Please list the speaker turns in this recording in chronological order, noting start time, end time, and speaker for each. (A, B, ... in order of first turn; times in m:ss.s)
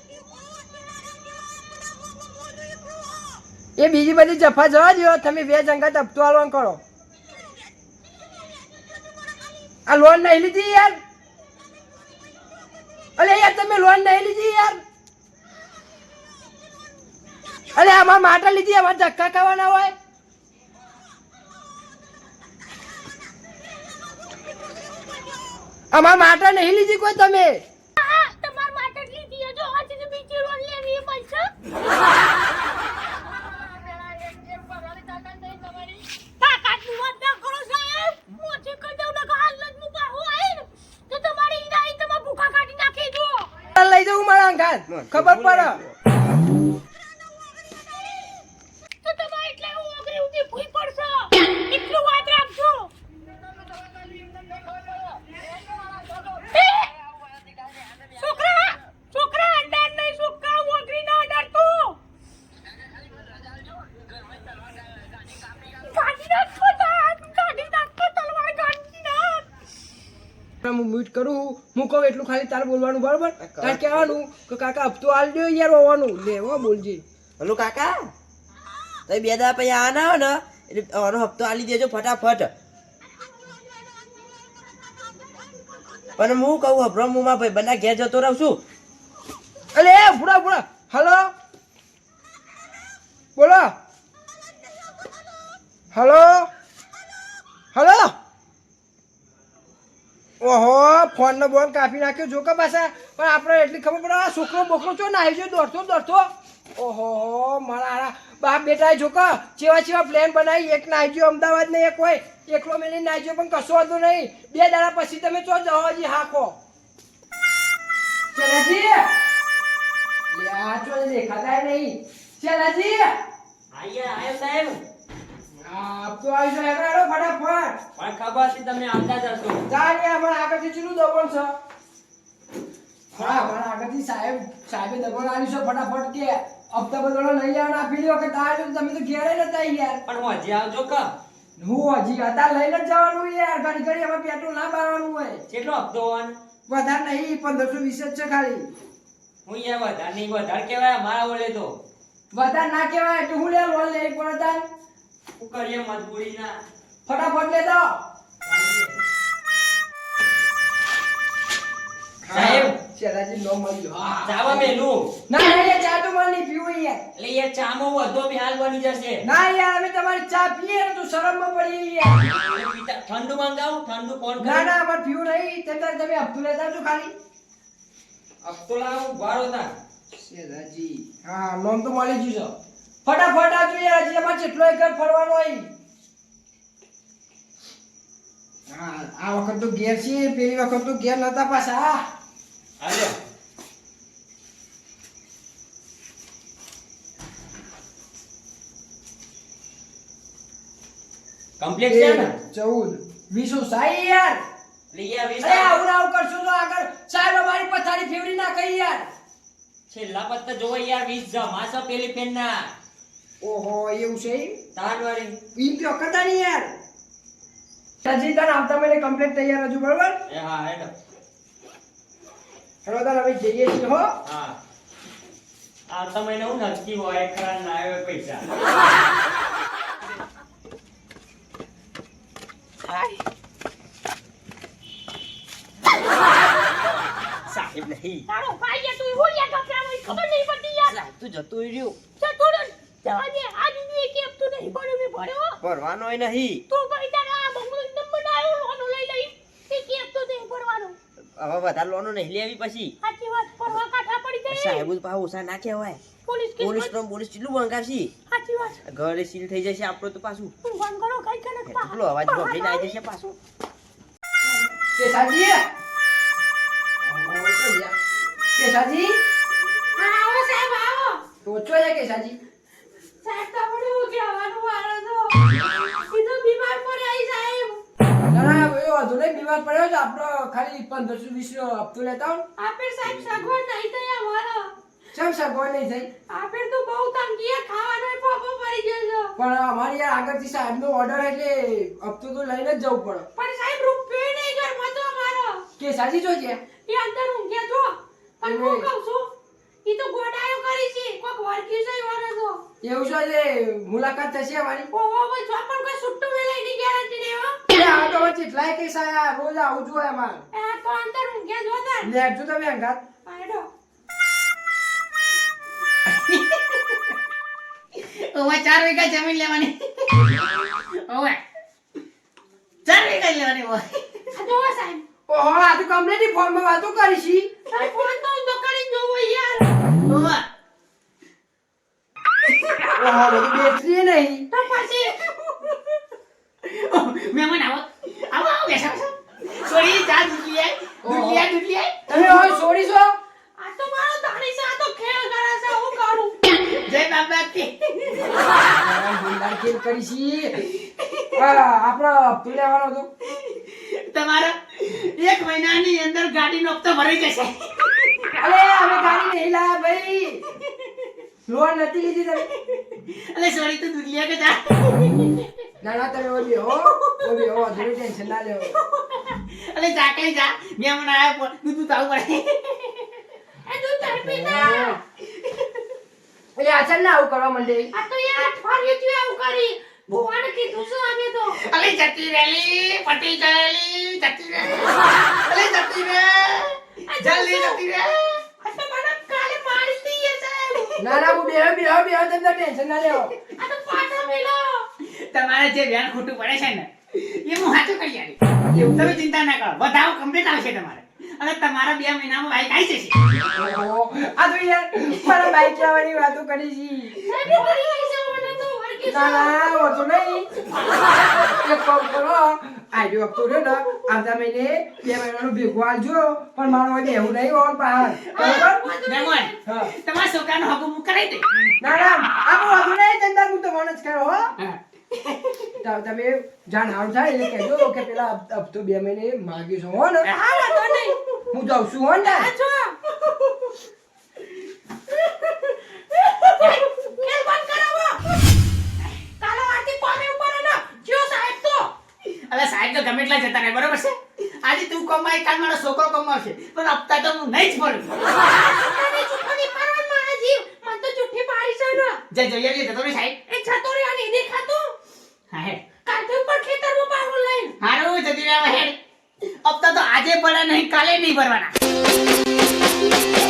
0:03.8-0:06.8 A
0:09.9-0:11.0 A
0:13.2-0:14.8 A
0:17.7-0:19.9 A
0:25.9-0:27.6 A
0:28.0-0:31.5 B
0:36.4-0:43.5 B
0:43.7-0:45.8 A
0:44.9-0:46.0 C
0:49.0-0:52.9 B
0:56.4-0:56.9 B
0:58.1-1:02.0 B
1:05.6-1:09.4 B
1:10.6-1:17.0 A
1:13.4-1:14.0 C
1:17.4-1:18.0 C
1:19.1-1:22.5 C
1:26.2-1:28.6 C
1:29.7-1:31.3 A
1:33.4-1:33.7 A
1:35.9-1:36.5 A
1:37.7-1:38.1 A
1:40.4-1:56.6 A
1:58.3-1:59.0 A
2:00.3-2:03.1 A
2:03.7-2:04.8 D
2:05.6-2:07.8 A
2:08.0-2:09.6 D
2:09.7-2:11.5 A
2:13.1-2:20.0 A
2:20.0-2:21.1 D
2:21.6-2:25.4 A
2:25.5-2:26.3 D
2:26.7-2:28.7 A
2:29.4-2:31.7 D
2:32.3-2:34.6 A
2:35.4-2:36.6 D
2:37.0-2:38.0 A
2:38.4-2:39.0 D
2:42.2-2:44.7 A
2:42.3-2:42.7 D
2:44.2-2:45.1 D
2:45.3-2:47.0 A
2:47.2-2:49.2 D
2:49.2-2:52.2 A
2:52.2-2:54.7 D
2:54.4-2:57.1 A
2:58.4-2:59.7 D
3:00.1-3:05.7 A
3:08.7-3:12.0 A
3:12.8-3:13.1 D
3:21.6-3:22.3 D
3:21.8-3:24.4 A
3:24.9-3:25.7 D
3:25.4-3:29.1 A
3:29.9-3:32.7 D
3:33.4-3:34.6 A
3:34.8-3:35.4 D
3:35.6-3:36.7 A
3:38.0-3:40.2 A
3:40.3-3:40.9 D
3:42.8-3:44.1 A
3:44.2-3:44.6 D
3:45.9-3:48.5 D
3:52.9-3:53.1 C
3:57.5-3:58.2 C
3:58.3-4:01.0 B
4:00.9-4:02.0 C
4:02.2-4:05.6 B
4:05.6-4:06.6 C
4:06.7-4:11.0 B
4:11.4-4:12.9 C
4:13.0-4:14.9 B
4:14.5-4:16.0 C
4:16.2-4:16.9 B
4:16.6-4:18.1 C
4:18.3-4:18.8 B
4:18.8-4:20.5 C
4:20.6-4:23.0 B
4:21.7-4:23.4 C
4:24.9-4:25.6 A
4:27.0-4:27.9 A
4:28.5-4:29.1 A
4:30.0-4:31.2 B
4:31.4-4:32.4 A
4:33.2-4:37.8 B
4:38.3-4:42.4 A
4:42.6-4:44.7 B
4:45.1-4:46.1 A
4:46.3-4:49.3 B
4:49.4-4:53.3 A
4:53.3-4:55.6 B
4:55.8-4:56.6 A
4:56.8-4:59.3 B
4:58.4-4:58.9 A
4:59.8-5:02.6 B
5:02.8-5:04.9 A
5:04.9-5:07.6 B
5:07.7-5:10.4 A
5:10.5-5:12.1 B
5:12.0-5:13.0 A
5:13.2-5:13.7 B
5:16.1-5:17.1 E
5:17.9-5:21.4 E
5:22.8-5:24.2 E
5:24.3-5:25.0 B
5:25.3-5:27.5 A
5:27.7-5:29.7 B
5:30.0-5:30.4 E
5:32.7-5:33.4 E
5:33.0-5:34.5 A
5:34.5-5:35.7 B
5:36.6-5:41.9 E
5:41.0-5:41.5 A
5:42.1-5:43.2 A
5:42.1-5:42.6 B
5:43.6-5:46.4 B
5:46.6-5:48.3 E
5:48.6-5:50.7 A
5:50.7-5:51.2 E
5:51.3-5:53.1 A
5:53.5-5:58.9 E
5:58.4-6:00.4 A
6:01.5-6:02.5 A
6:02.6-6:05.4 E
6:05.8-6:08.8 A
6:06.7-6:07.6 E
6:09.2-6:13.1 E
6:13.6-6:15.0 B
6:14.0-6:15.0 A
6:16.6-6:17.9 A
6:17.9-6:21.6 B
6:21.5-6:28.4 E
6:27.1-6:27.8 B
6:28.6-6:31.1 B
6:30.7-6:31.0 E
6:31.0-6:33.3 A
6:33.5-6:34.9 B
6:35.0-6:43.3 E
6:38.7-6:39.2 A
6:43.4-6:47.6 A
6:45.4-6:45.6 E
6:47.2-6:49.9 B
6:49.0-6:50.5 A
6:51.2-6:58.8 A
6:58.3-6:59.6 B
6:58.4-7:01.7 E
6:59.6-6:59.9 A
7:01.8-7:04.5 A
7:04.6-7:05.7 E
7:05.8-7:10.3 A
7:10.2-7:10.8 E
7:10.4-7:11.2 B
7:11.5-7:12.5 A
7:12.2-7:13.0 B
7:16.4-7:18.2 B
7:16.6-7:16.8 E
7:19.4-7:21.9 B
7:22.2-7:28.4 E
7:28.4-7:32.2 B
7:32.3-7:33.4 E
7:33.5-7:34.9 B
7:35.5-7:35.9 E
7:36.0-7:37.8 B
7:37.8-7:38.9 E
7:39.6-7:41.7 E